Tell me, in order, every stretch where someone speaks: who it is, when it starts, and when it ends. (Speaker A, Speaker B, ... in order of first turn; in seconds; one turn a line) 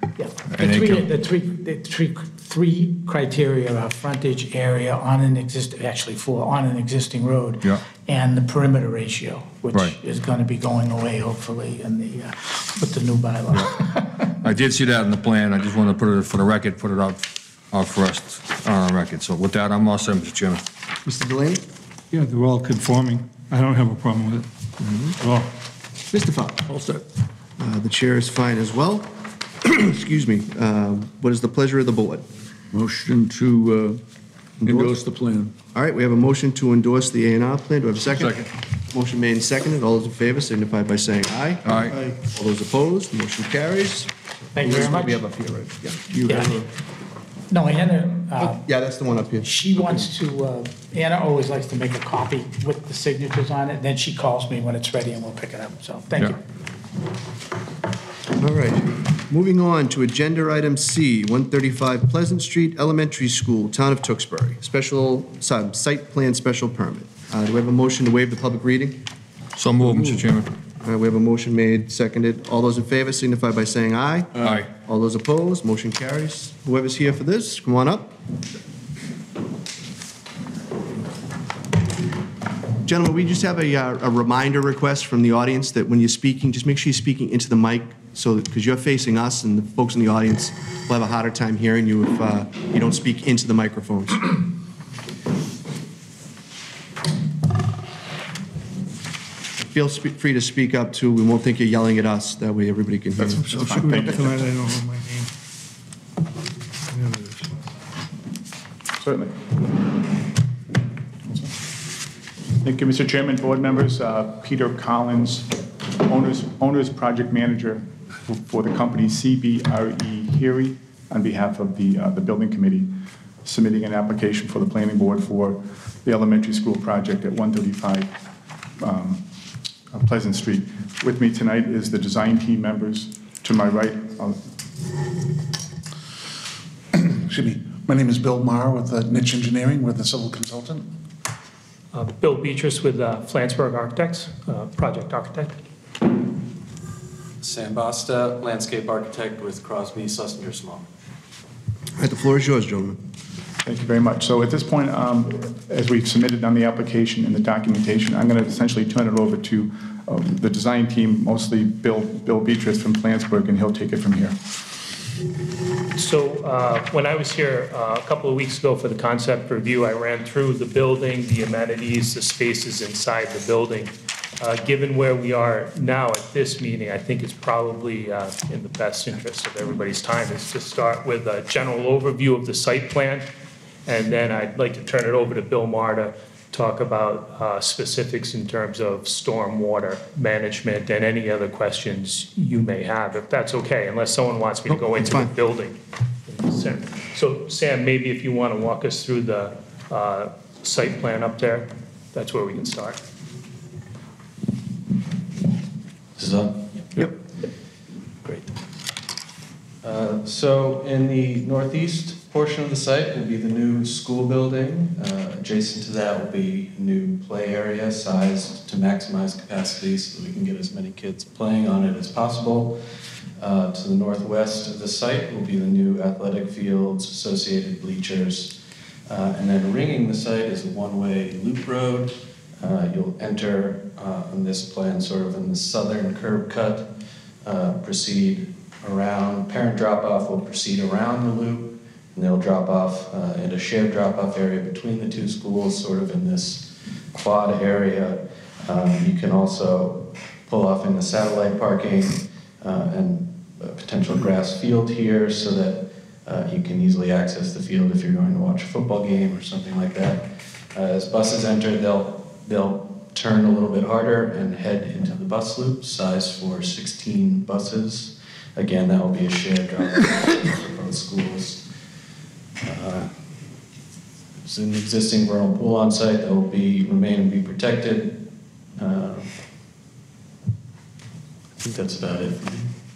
Speaker A: 0.2-14.1
Speaker B: 0.5-1.1
Speaker B: 14.3-20.6
Speaker C: 21.1-21.6
Speaker D: 22.1-24.5
Speaker D: 25.2-25.5
Speaker C: 26.1-26.6
Speaker E: 26.7-27.0
Speaker C: 27.6-32.2
Speaker E: 32.7-34.0
Speaker E: 34.6-35.5
Speaker C: 34.6-34.9
Speaker C: 35.7-46.7
Speaker B: 38.2-38.4
Speaker B: 41.6-42.0
Speaker A: 44.5-45.3
Speaker A: 46.2-46.6
Speaker A: 47.5-48.6
Speaker C: 48.4-49.6
Speaker A: 49.4-56.4
Speaker C: 58.4-69.0
Speaker B: 69.6-70.5
Speaker E: 69.8-70.2
Speaker C: 70.8-78.2
Speaker B: 74.4-74.7
Speaker C: 82.8-94.4
Speaker C: 99.6-104.1
Speaker F: 103.2-104.4
Speaker D: 103.5-105.3
Speaker F: 109.0-109.5
Speaker F: 112.6-128.1
Speaker F: 128.8-129.3
Speaker F: 129.9-134.4
Speaker G: 136.9-140.9
Speaker H: 141.9-145.6
Speaker I: 147.4-150.9
Speaker C: 152.0-153.0
Speaker F: 153.7-164.4
Speaker H: 165.9-183.3
Speaker H: 183.9-203.0
Speaker C: 194.7-195.3
Speaker I: 206.2-207.2
Speaker I: 208.2-208.6
Speaker I: 209.8-222.8
Speaker I: 223.4-228.6
Speaker I: 229.1-236.9
Speaker I: 237.4-271.6
Speaker I: 272.6-273.1
Speaker I: 274.4-278.3
Speaker I: 278.8-279.3
Speaker I: 281.6-282.6